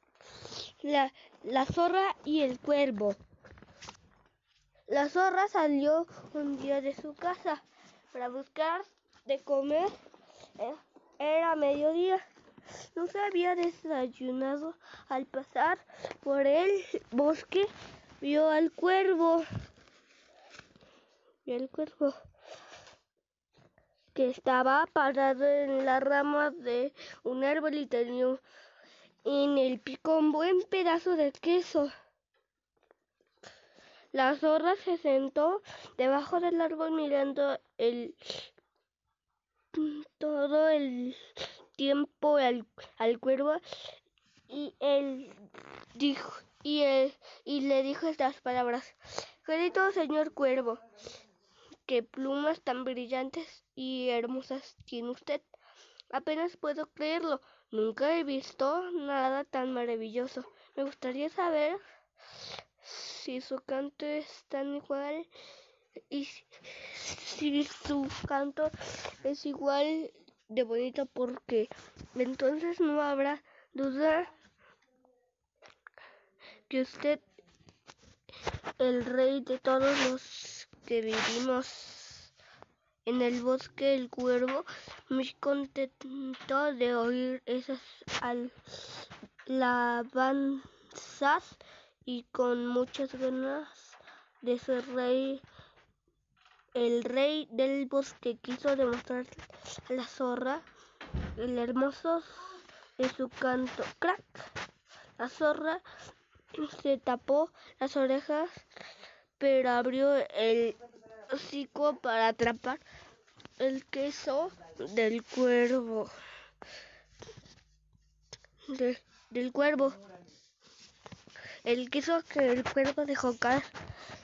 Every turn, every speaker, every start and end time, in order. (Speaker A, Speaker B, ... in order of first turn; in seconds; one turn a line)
Speaker A: 0.4-3.2
Speaker A: 4.9-9.9
Speaker A: 10.6-12.2
Speaker A: 12.9-17.7
Speaker A: 18.2-19.4
Speaker A: 21.5-22.2
Speaker A: 24.1-28.4
Speaker A: 29.2-31.9
Speaker A: 34.1-38.5
Speaker A: 39.7-43.6
Speaker A: 44.5-45.4
Speaker A: 46.0-50.8
Speaker A: 51.9-55.5
Speaker A: 56.1-61.8
Speaker A: 62.4-65.3
Speaker A: 66.1-74.3
Speaker A: 76.7-77.2
Speaker A: 78.8-82.3
Speaker A: 83.0-95.4
Speaker A: 96.7-100.7
Speaker A: 101.3-104.5
Speaker A: 105.2-105.8
Speaker A: 106.6-108.6
Speaker A: 109.4-112.8
Speaker A: 113.6-116.1
Speaker A: 118.7-120.0
Speaker A: 121.7-123.7